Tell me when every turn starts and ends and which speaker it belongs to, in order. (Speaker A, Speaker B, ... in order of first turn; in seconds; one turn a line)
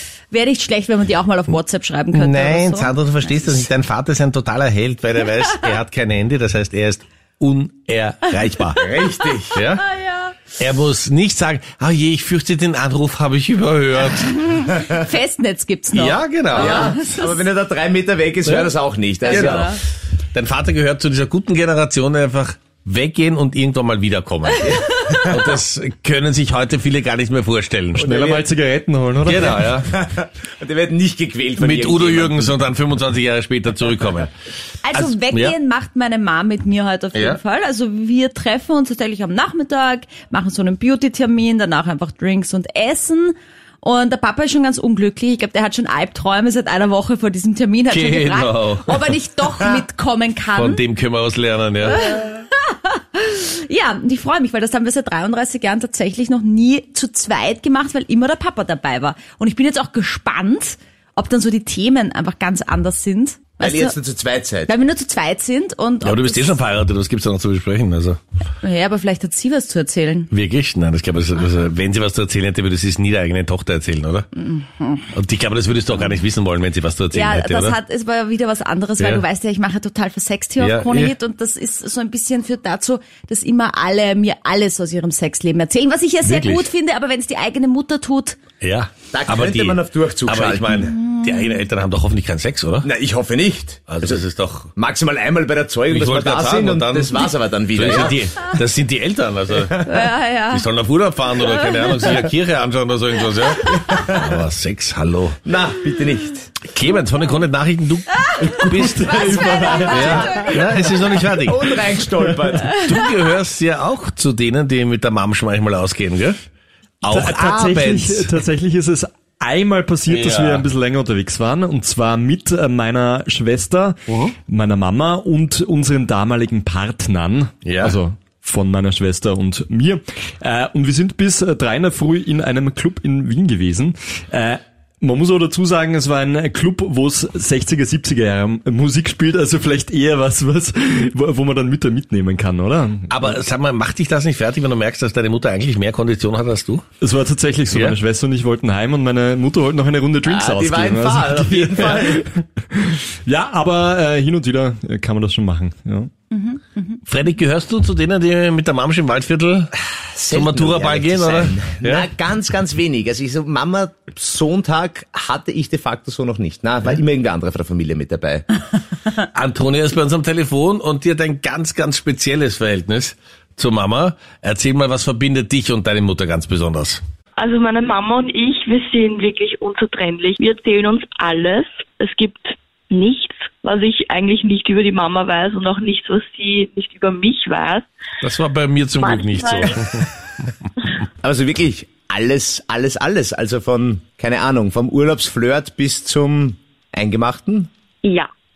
Speaker A: 0.3-3.7
Speaker B: 2.1-8.8
Speaker C: 8.8-9.6
Speaker B: 9.5-9.8
Speaker A: 9.8-10.4
Speaker B: 10.5-14.4
Speaker A: 14.1-17.4
Speaker B: 15.9-17.0
Speaker C: 16.5-19.7
Speaker B: 18.4-18.7
Speaker A: 19.2-19.8
Speaker B: 19.3-19.7
Speaker B: 20.3-24.6
Speaker A: 24.6-25.1
Speaker C: 24.6-25.6
Speaker B: 25.2-28.1
Speaker D: 28.0-29.7
Speaker C: 28.0-28.4
Speaker B: 29.2-29.9
Speaker C: 29.9-32.5
Speaker B: 31.6-34.3
Speaker A: 34.8-50.8
Speaker B: 34.9-35.5
Speaker B: 37.1-37.4
Speaker B: 47.9-49.1
Speaker B: 50.5-52.0
Speaker A: 51.8-63.9
Speaker C: 63.6-64.7
Speaker A: 64.7-66.6
Speaker B: 66.0-68.2
Speaker A: 68.6-70.3
Speaker B: 70.3-74.3
Speaker A: 74.4-75.0
Speaker B: 75.1-77.8
Speaker A: 77.1-88.4
Speaker B: 79.0-79.2
Speaker B: 80.6-81.1
Speaker B: 86.2-86.7
Speaker B: 88.6-92.9
Speaker C: 89.1-90.9
Speaker A: 90.8-91.6
Speaker C: 92.8-94.2
Speaker B: 93.9-94.7
Speaker C: 94.8-98.2
Speaker B: 95.9-99.8
Speaker C: 99.6-100.0
Speaker A: 99.8-100.6
Speaker B: 100.5-105.4
Speaker A: 101.4-102.2
Speaker A: 103.7-104.1
Speaker C: 103.8-104.4
Speaker C: 105.4-106.5
Speaker B: 106.6-109.3
Speaker C: 108.4-112.8
Speaker D: 108.7-110.3
Speaker A: 109.2-110.6
Speaker B: 109.9-111.7
Speaker B: 112.7-116.4
Speaker B: 117.0-118.3
Speaker D: 117.1-143.2
Speaker B: 120.1-120.6
Speaker B: 124.1-124.3
Speaker B: 127.6-128.0
Speaker B: 143.1-146.8
Speaker D: 147.0-156.1
Speaker B: 147.7-148.0
Speaker C: 150.2-152.2
Speaker A: 156.3-157.0
Speaker B: 157.0-159.7
Speaker C: 160.0-168.4
Speaker B: 160.3-162.1
Speaker B: 169.2-177.0
Speaker E: 177.4-187.9
Speaker B: 188.2-190.5
Speaker E: 189.0-189.8
Speaker C: 191.2-197.7
Speaker E: 198.0-198.3